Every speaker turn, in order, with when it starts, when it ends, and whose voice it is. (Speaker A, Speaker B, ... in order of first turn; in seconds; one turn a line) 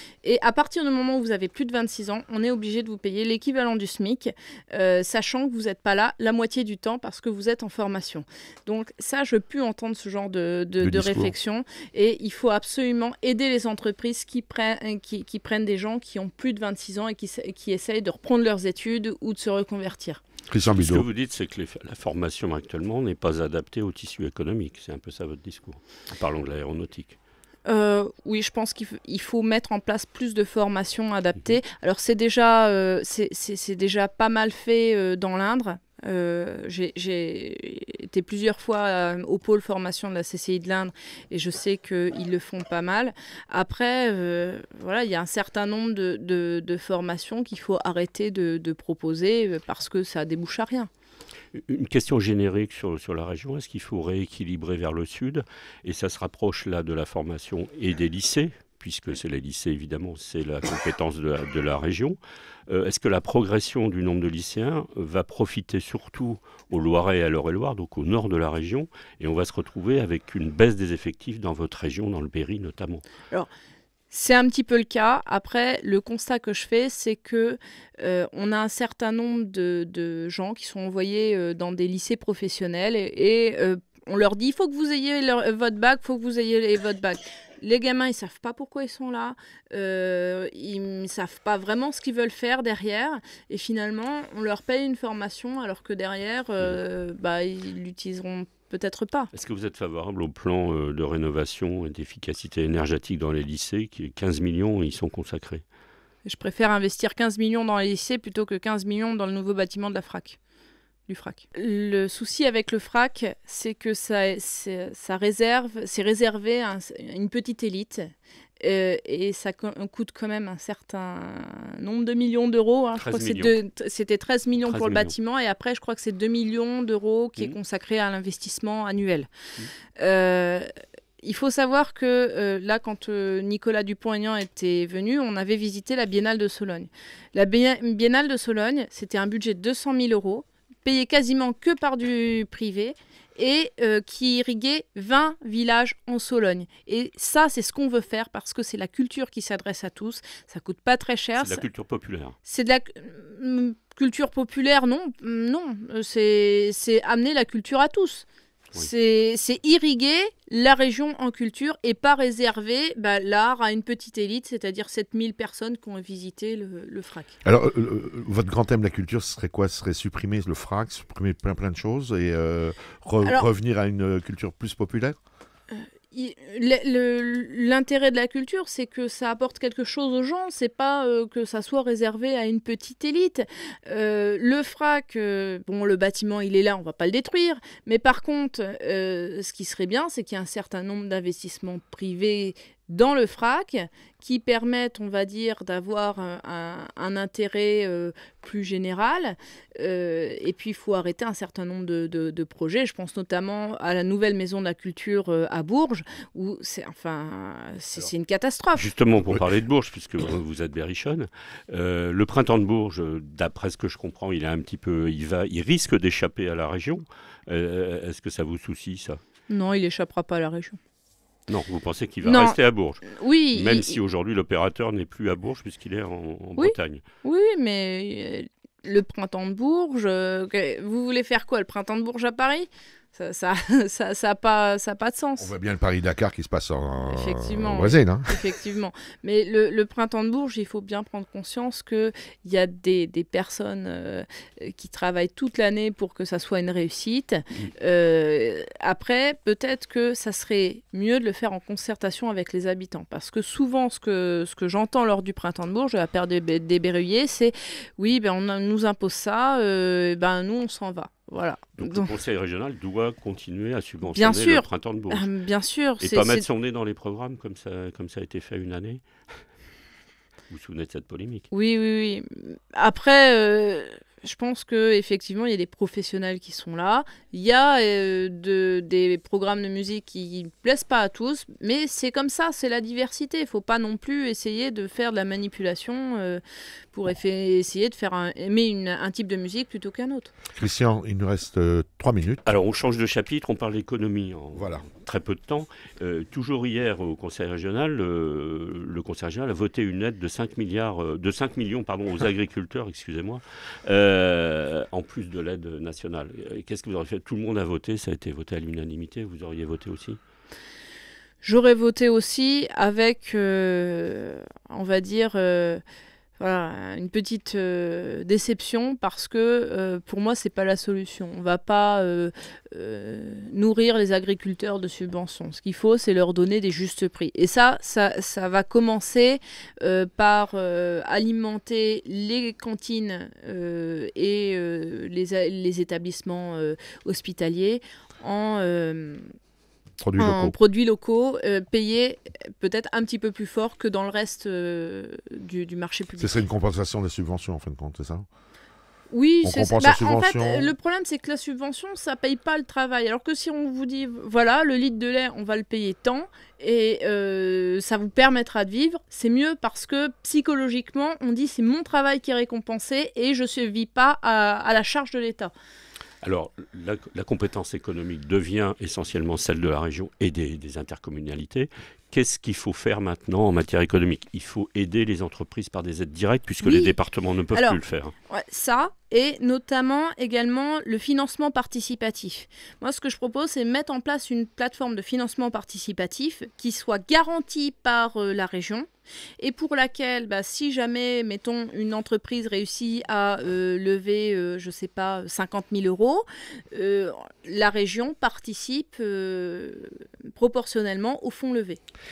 Speaker A: 0.2-20.2
Speaker B: 10.8-11.3
Speaker B: 20.5-21.0
Speaker C: 20.6-27.2
Speaker A: 27.7-50.9
Speaker C: 51.5-73.0
Speaker A: 74.1-99.3
Speaker C: 99.3-105.6
Speaker A: 106.2-110.4
Speaker A: 111.1-129.3
Speaker C: 123.0-123.5
Speaker C: 124.6-125.1
Speaker A: 130.0-130.7
Speaker A: 131.2-151.6
Speaker C: 151.4-152.4
Speaker A: 152.4-167.3
Speaker B: 167.4-175.2
Speaker A: 173.2-173.5
Speaker A: 175.7-208.9
Speaker C: 208.7-219.2
Speaker A: 219.5-220.8
Speaker C: 221.5-227.0
Speaker A: 222.2-224.0
Speaker A: 226.6-235.5
Speaker B: 235.4-238.5
Speaker A: 237.1-262.1
Speaker C: 261.8-265.3
Speaker A: 264.1-266.4
Speaker C: 266.0-269.0
Speaker C: 270.5-271.5
Speaker A: 271.5-286.4
Speaker A: 286.9-290.3
Speaker B: 290.5-292.5
Speaker C: 292.4-310.2
Speaker B: 294.5-294.9
Speaker A: 311.4-315.8
Speaker A: 316.4-339.3
Speaker B: 340.0-340.6
Speaker A: 340.2-346.4
Speaker B: 346.2-348.3
Speaker A: 349.1-365.5
Speaker B: 349.4-350.7
Speaker C: 366.2-378.1
Speaker A: 376.6-376.9
Speaker A: 377.5-388.9
Speaker A: 389.4-401.8